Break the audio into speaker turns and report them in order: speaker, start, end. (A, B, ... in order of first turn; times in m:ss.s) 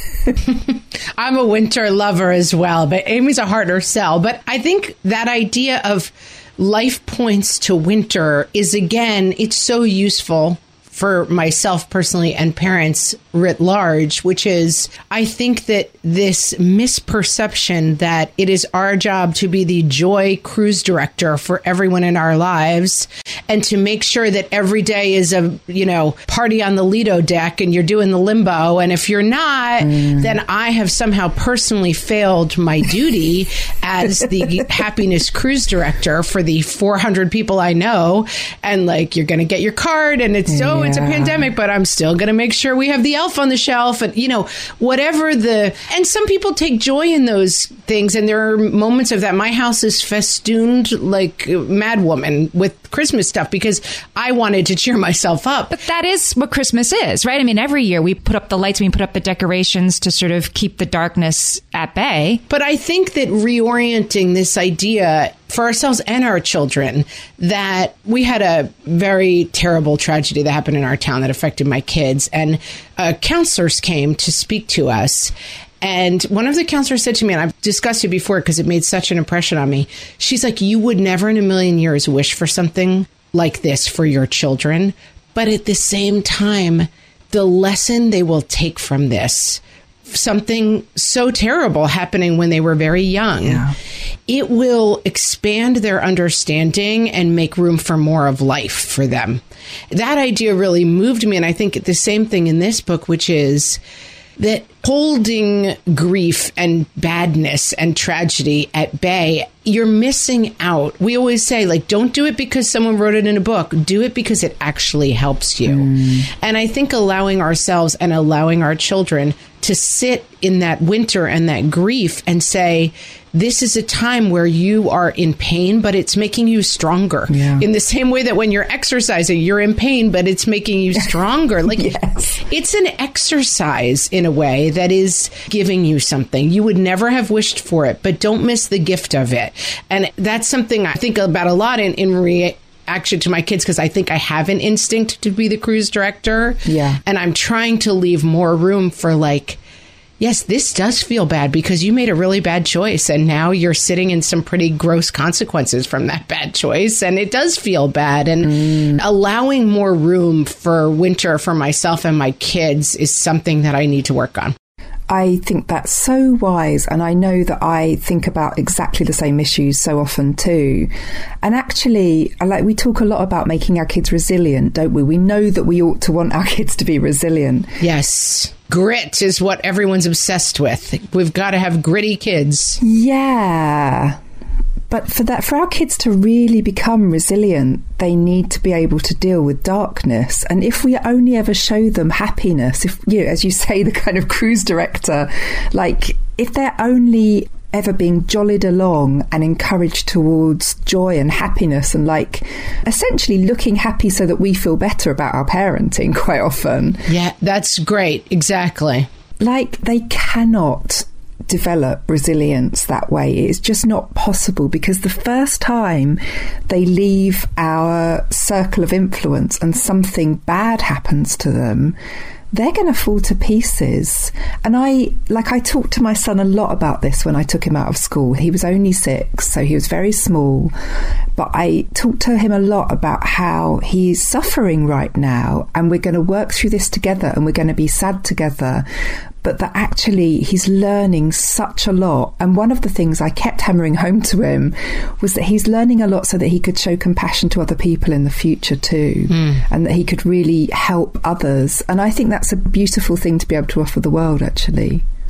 0:00.5-0:55.8 A
0:29.8-0:30.4 B
0:40.5-0:41.5 B
0:55.7-1:02.4 C
1:02.5-1:33.6 A
1:33.4-1:33.7 B
1:34.3-1:43.8 A
1:44.4-2:29.6 A
1:55.7-1:56.2 B
2:07.3-2:07.6 B
2:11.7-2:12.4 B
2:26.6-2:27.0 B
2:30.2-2:44.5 A
2:38.4-2:39.0 B
2:45.1-2:50.9 B
2:51.4-2:57.8 B
2:57.8-3:02.8 A
3:02.8-3:04.2 B
3:04.9-3:27.1 B
3:27.1-3:29.1 A
3:29.4-3:42.0 B
3:42.5-3:50.7 B
3:51.3-3:58.8 B
3:59.4-4:15.0 B
4:09.3-4:09.6 A